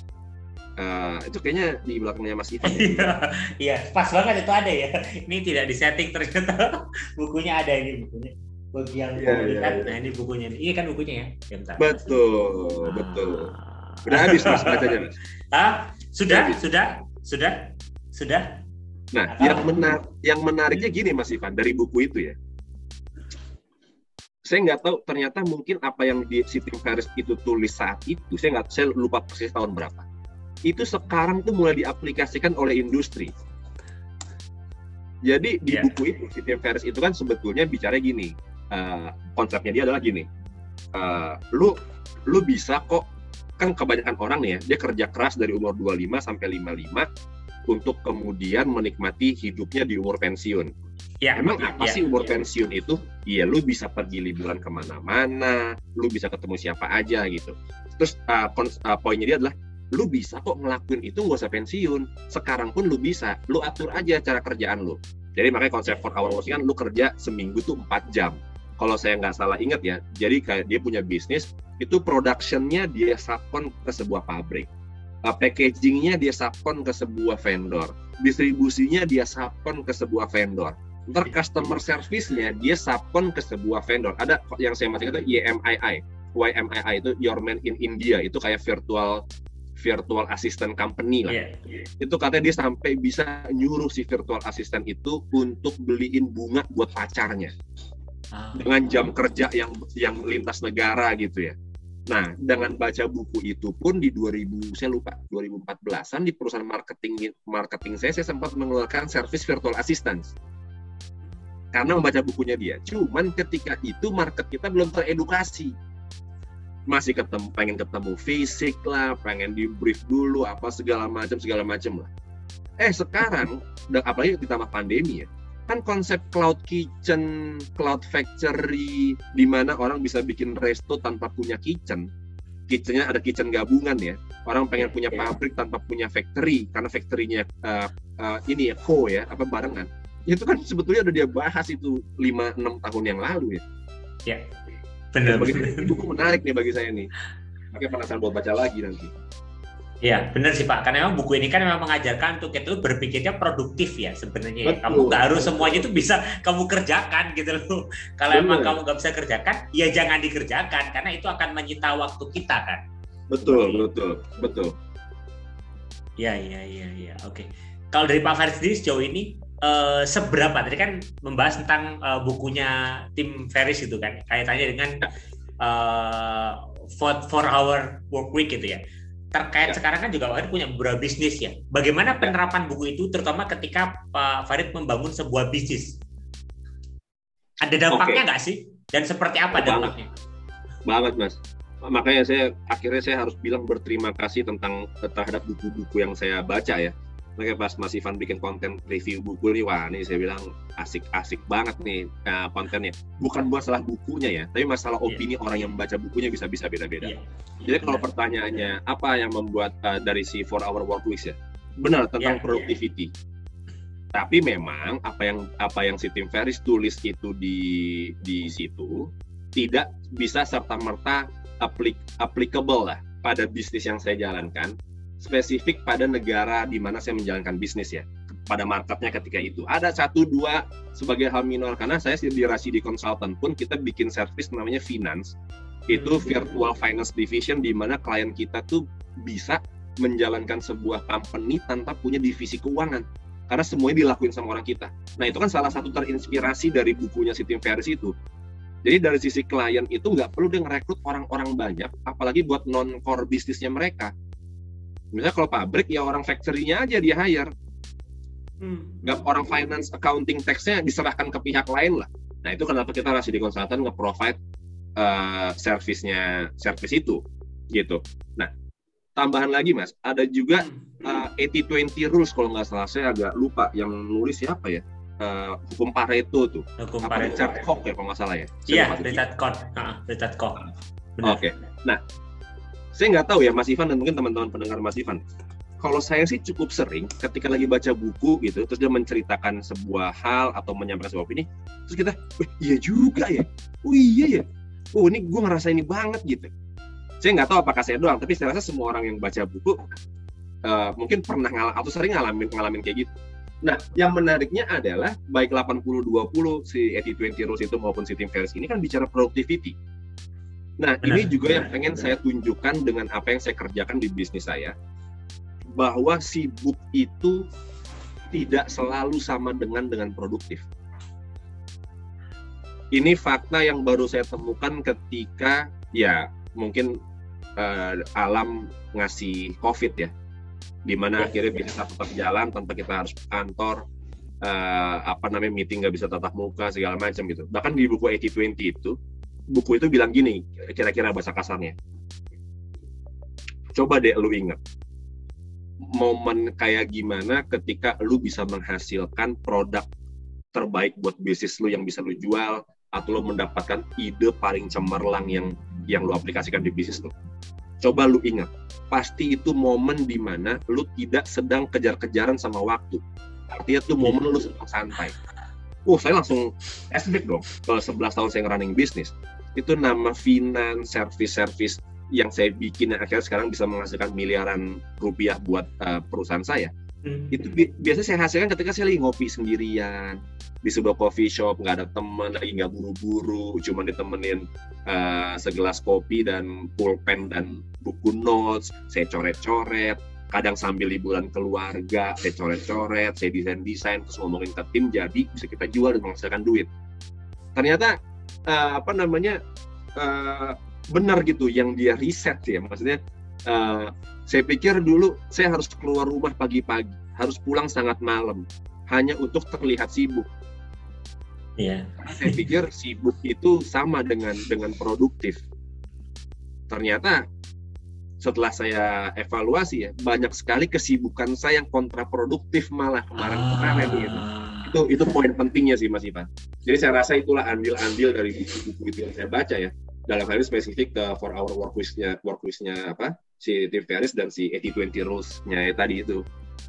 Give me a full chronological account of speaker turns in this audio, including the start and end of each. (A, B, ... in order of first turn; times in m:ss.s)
0:00.8-0:03.1 A
0:02.6-0:12.2 B
0:09.2-0:10.0 A
0:11.8-0:13.5 A
0:12.8-0:17.6 B
0:14.1-0:15.1 A
0:16.3-0:16.6 A
0:18.1-0:18.5 B
0:19.1-0:22.4 A
0:19.3-0:19.8 B
0:24.5-0:30.0 A
0:30.7-0:33.3 A
0:35.2-0:40.3 A
0:40.9-0:43.0 A
0:43.6-0:47.1 A
0:47.7-0:50.7 A
0:51.2-0:52.0 B
0:51.4-1:14.7 A
1:15.2-1:29.2 A
1:29.8-1:31.4 A
1:31.3-1:31.6 B
1:32.0-1:37.5 A
1:38.3-1:38.7 B
1:38.6-1:41.6 A
1:42.1-1:50.3 A
1:51.7-1:55.7 A
1:56.9-2:02.1 A
2:02.8-2:12.1 A
2:12.7-2:23.6 A
2:14.8-2:15.3 B
2:25.1-2:26.0 B
2:25.2-2:27.1 A
2:27.7-2:29.1 A
2:30.0-2:42.8 B
2:34.7-2:36.0 A
2:38.3-2:38.8 A
2:43.3-2:44.7 A
2:43.4-2:43.8 B
2:46.2-2:55.1 B
2:55.6-2:58.8 B
2:59.3-3:06.0 B
3:07.6-3:10.1 B
3:07.9-3:08.2 A
3:09.5-3:09.9 A
3:10.9-3:33.1 A
3:27.8-3:28.0 B
3:32.2-3:32.5 B
3:34.1-3:55.4 A
3:55.9-4:08.1 A
3:55.9-3:56.4 B
4:08.8-4:14.1 A
4:15.1-4:17.5 A
4:18.6-4:19.1 B
4:19.0-4:24.4 A
4:25.0-4:27.2 A
4:27.7-4:28.5 A
4:29.2-4:39.2 A
4:36.8-4:37.5 B
4:38.7-4:40.6 B
4:41.2-4:41.4 B
4:41.2-4:42.0 A
4:43.0-4:45.2 A
4:45.8-4:56.5 A
4:57.2-4:59.8 A
5:00.6-5:03.1 A
5:03.6-5:09.8 A
5:10.8-5:14.8 A
5:11.0-5:11.7 B
5:15.8-5:17.4 A
5:18.3-5:20.7 A
5:22.9-5:26.9 A
5:27.6-5:30.1 A
5:30.9-5:33.8 A
5:34.4-5:39.0 A
5:39.5-5:41.8 A
5:43.8-5:44.6 A
5:45.9-5:49.9 A
5:50.5-5:57.1 A
5:57.8-6:05.2 A
6:05.9-6:16.7 A
6:17.0-6:17.3 B
6:17.3-6:36.7 A
6:37.6-6:39.4 A
6:40.0-6:50.3 A
6:51.6-6:52.4 B
6:52.0-6:55.4 A
6:56.7-6:57.2 A
6:58.2-7:16.2 A
7:03.5-7:04.6 B